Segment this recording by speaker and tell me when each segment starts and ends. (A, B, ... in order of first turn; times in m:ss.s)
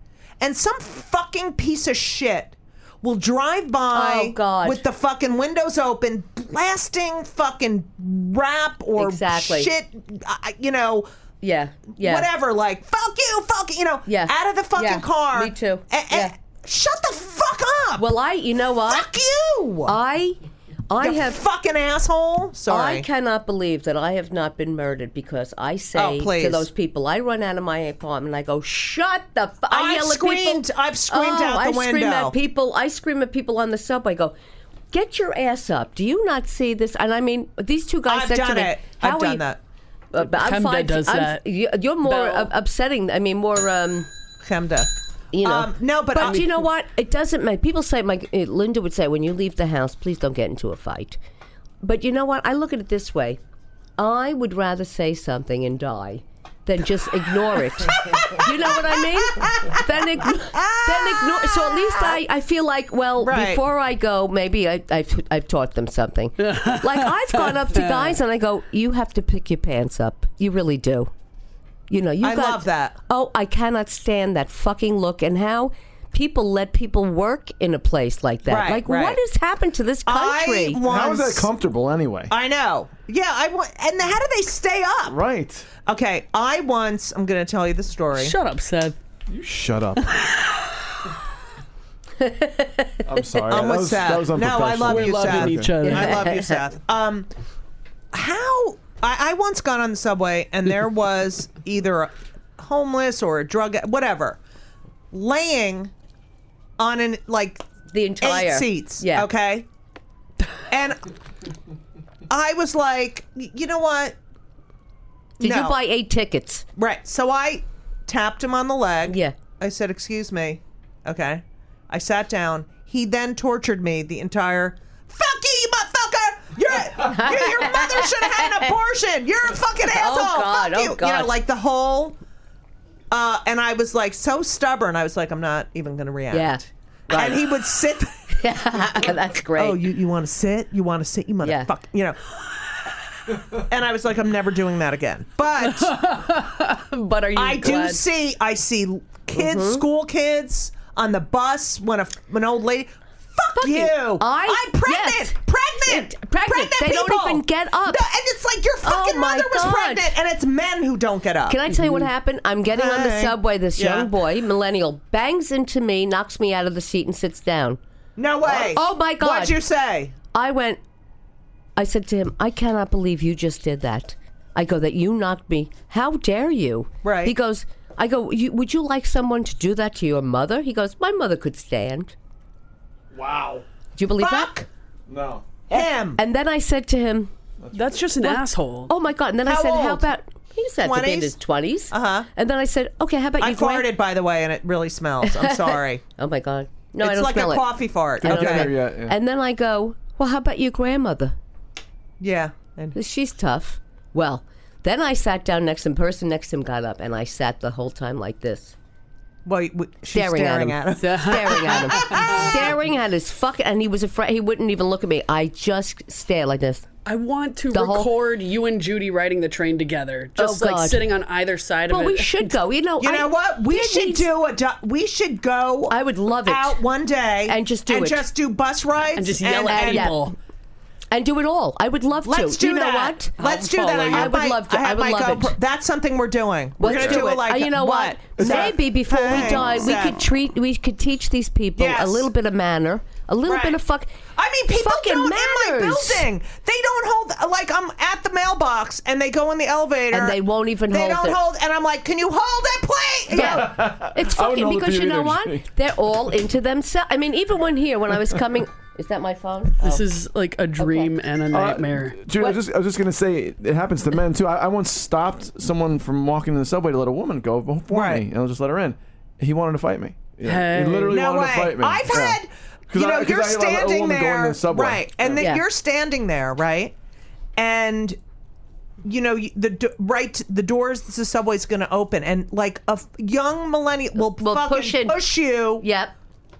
0:00.4-0:11.1 A
0:03.9-0:04.8 B
0:09.0-0:09.7 B
0:11.4-0:12.3 B
0:11.9-0:18.1 A
0:14.0-0:16.3 B
0:18.0-0:19.1 B
0:18.9-0:20.0 A
0:19.8-0:21.4 B
0:21.0-0:23.0 A
0:22.7-0:34.4 B
0:25.9-0:26.7 A
0:29.7-0:32.4 A
0:34.9-0:39.4 B
0:38.1-0:39.6 A
0:40.1-0:44.1 B
0:40.2-0:41.4 C
0:42.0-0:42.5 C
0:44.4-0:44.9 A
0:45.3-0:51.2 B
0:45.4-0:46.4 A
0:46.2-0:46.5 C
0:51.8-0:53.4 B
0:54.0-1:11.1 B
0:57.9-1:02.2 A
1:03.2-1:03.6 A
1:06.4-1:08.2 C
1:11.9-1:20.8 B
1:12.2-1:13.0 A
1:18.5-1:19.2 A
1:20.0-1:21.5 A
1:20.8-1:22.3 D
1:22.3-1:25.2 A
1:25.1-1:25.7 D
1:25.9-1:28.3 A
1:28.1-1:29.0 C
1:29.3-1:30.1 D
1:30.0-1:30.8 C
1:32.2-1:33.4 B
1:33.0-1:35.7 D
1:33.5-1:37.3 A
1:34.8-1:36.3 C
1:35.8-1:36.6 B
1:38.1-1:44.4 A
1:45.1-1:45.9 A
1:46.8-1:47.6 A
1:47.9-1:49.3 B
1:48.2-1:49.7 A
1:50.7-1:51.0 A
1:52.3-1:54.1 A
1:55.4-1:56.6 B
1:55.4-1:55.8 A
1:56.8-2:12.2 A
1:59.1-1:59.4 B
2:07.0-2:08.8 B
2:09.8-2:11.4 B
2:13.1-2:18.4 A
2:16.3-2:17.5 B
2:18.3-2:19.8 B
2:19.5-2:22.2 A
2:21.4-2:21.7 B
2:23.5-2:26.0 A
2:25.6-2:28.0 C
2:27.3-2:41.6 A
2:29.3-2:29.8 B
2:33.6-2:38.0 B
2:38.8-2:40.2 B
2:41.4-2:47.8 B
2:42.7-2:44.1 A
2:48.2-2:50.1 A
2:48.4-2:49.6 B
2:50.3-2:50.8 B
2:51.8-3:02.1 B
2:57.0-2:57.3 A
3:03.1-3:03.6 D
3:04.0-3:04.6 B
3:04.2-3:04.6 A
3:05.1-3:05.6 D
3:05.7-3:06.2 A
3:05.7-3:07.3 B
3:07.6-3:07.9 D
3:07.7-3:08.9 C
3:08.2-3:13.9 B
3:09.4-3:10.0 A
3:10.8-3:11.3 A
3:11.9-3:12.3 A
3:13.4-3:16.0 A
3:15.2-3:21.4 B
3:17.0-3:18.7 A
3:18.2-3:19.1 D
3:22.2-3:23.0 A
3:22.9-3:28.7 B
3:29.4-3:32.6 A
3:30.1-3:36.9 B
3:31.0-3:32.6 C
3:37.0-3:42.5 C
3:37.7-3:38.1 B
3:40.4-3:41.1 B
3:41.9-3:44.3 B
3:43.0-3:50.1 A
3:45.9-3:46.9 B
3:47.4-3:48.3 B
3:49.2-3:50.3 C
3:49.7-3:50.3 B
3:51.1-3:55.6 B
3:52.2-4:00.2 A
3:53.4-3:54.3 C
3:56.8-4:04.1 B
3:56.8-3:57.2 D
3:58.4-3:58.7 D
4:01.8-4:02.3 A
4:03.4-4:03.8 A
4:04.4-4:13.7 A
4:04.7-4:06.3 B
4:10.1-4:11.4 B
4:13.3-4:15.6 D
4:13.3-4:20.0 B
4:19.8-4:22.4 C
4:20.8-4:21.1 B
4:21.5-4:35.5 D
4:27.9-4:28.2 A
4:30.4-4:31.2 C
4:31.1-4:36.9 A
4:35.4-4:35.6 B
4:37.6-4:38.2 A
4:39.0-4:45.8 A
4:44.2-4:46.1 B